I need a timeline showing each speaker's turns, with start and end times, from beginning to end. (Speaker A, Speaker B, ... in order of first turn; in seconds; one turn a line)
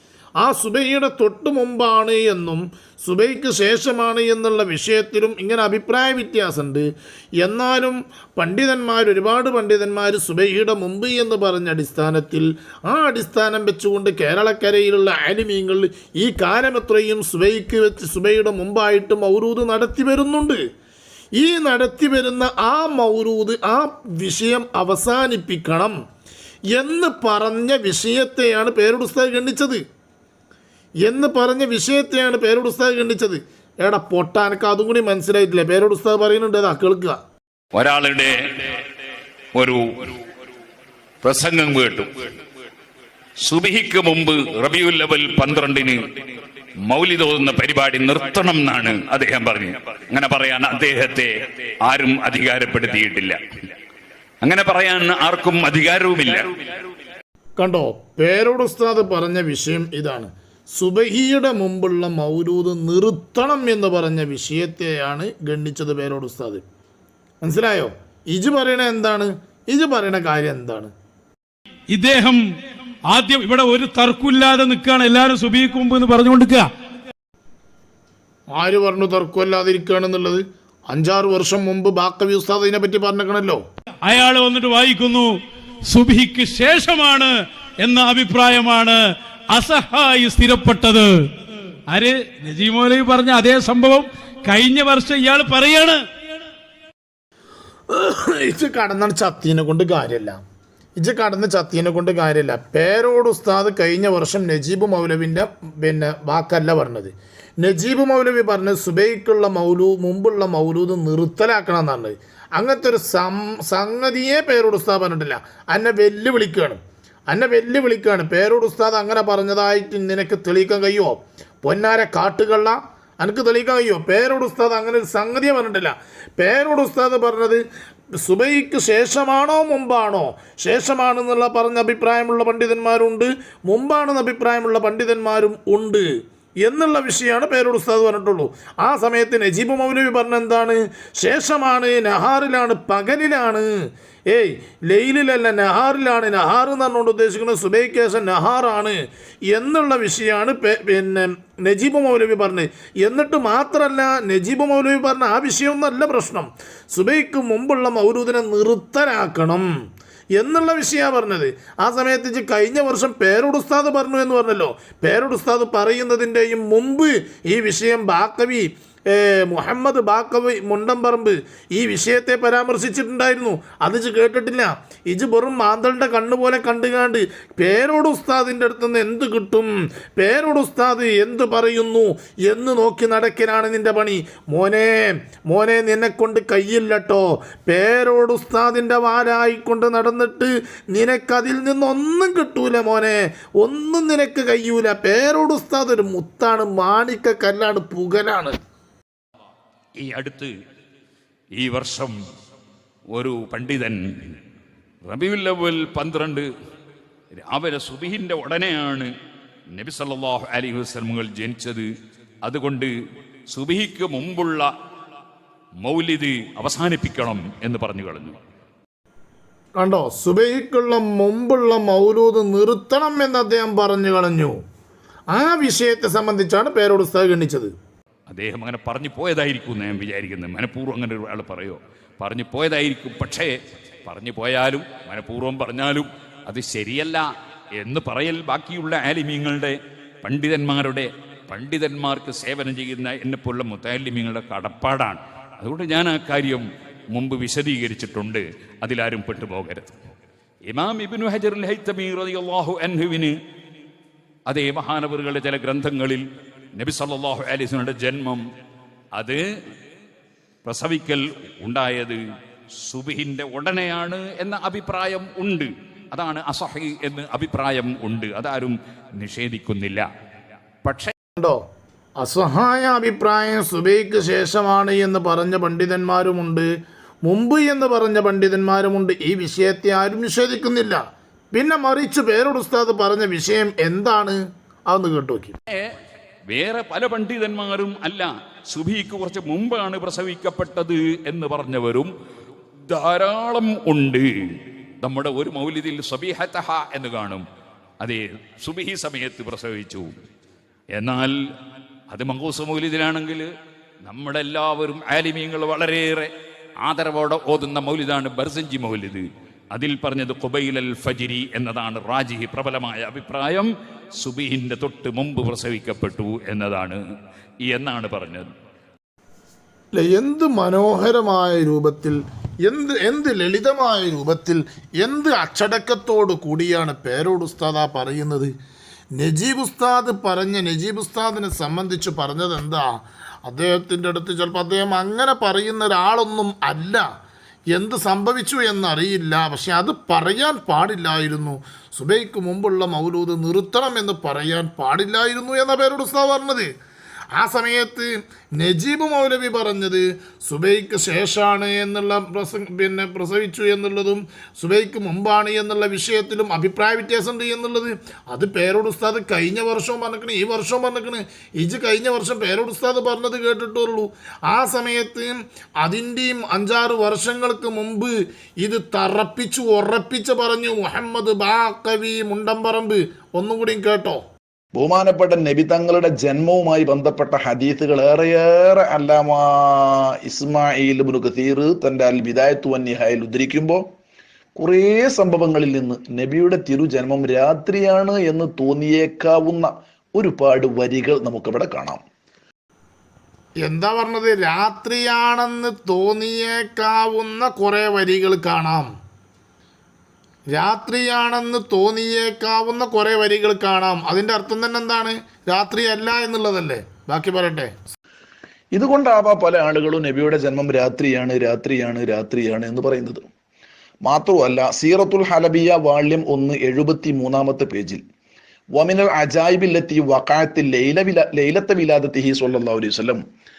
Speaker A: 0.4-6.9
Speaker A: 7.4-20.6
Speaker A: 21.4-26.0
Speaker A: 26.7-29.8
Speaker A: 31.0-37.2
Speaker B: 37.7-38.8
Speaker B: 39.5-40.2
Speaker B: 41.2-42.3
Speaker B: 43.5-46.2
Speaker B: 46.9-51.3
Speaker B: 51.9-53.7
Speaker B: 54.4-56.6
Speaker A: 57.6-66.6
Speaker A: 67.4-70.9
Speaker C: 71.9-72.4
Speaker C: 73.1-76.7
Speaker A: 78.5-83.6
Speaker C: 84.0-85.3
Speaker C: 85.9-91.1
Speaker C: 91.9-96.0
Speaker A: 97.9-100.4
Speaker A: 101.0-127.6
Speaker A: 128.2-136.1
Speaker A: 136.6-143.7
Speaker A: 144.3-149.0
Speaker A: 149.5-159.7
Speaker A: 160.3-198.5
Speaker B: 200.0-200.5
Speaker B: 201.6-202.1
Speaker B: 203.1-204.3
Speaker B: 205.1-206.4
Speaker B: 207.4-209.1
Speaker B: 209.7-211.8
Speaker B: 212.4-212.9
Speaker B: 213.5-214.7
Speaker B: 215.8-218.4
Speaker A: 219.8-224.6
Speaker A: 225.3-227.7
Speaker B: 228.3-233.5
Speaker B: 234.0-237.2
Speaker B: 237.8-250.0
Speaker B: 250.7-253.3
Speaker B: 254.5-256.2
Speaker B: 256.8-258.4
Speaker B: 259.2-259.4
Speaker B: 260.6-262.2
Speaker B: 262.8-270.1
Speaker B: 270.8-271.1
Speaker A: 272.2-276.7
Speaker A: 277.2-281.0
Speaker A: 281.5-285.6
Speaker B: 286.5-292.1
Speaker B: 292.9-297.4
Speaker B: 298.0-300.1
Speaker B: 301.0-301.3
Speaker B: 302.1-303.5
Speaker B: 304.1-306.3
Speaker B: 306.8-313.7
Speaker B: 314.2-317.0
Speaker B: 317.7-318.5
Speaker A: 319.9-328.5
Speaker A: 329.1-337.0
Speaker A: 337.7-346.7
Speaker A: 347.4-374.2
Speaker D: 374.7-383.8
Speaker D: 384.6-392.0
Speaker A: 393.6-398.9
Speaker A: 400.5-407.7
Speaker D: 408.7-413.2
Speaker D: 414.0-418.0
Speaker D: 418.7-423.2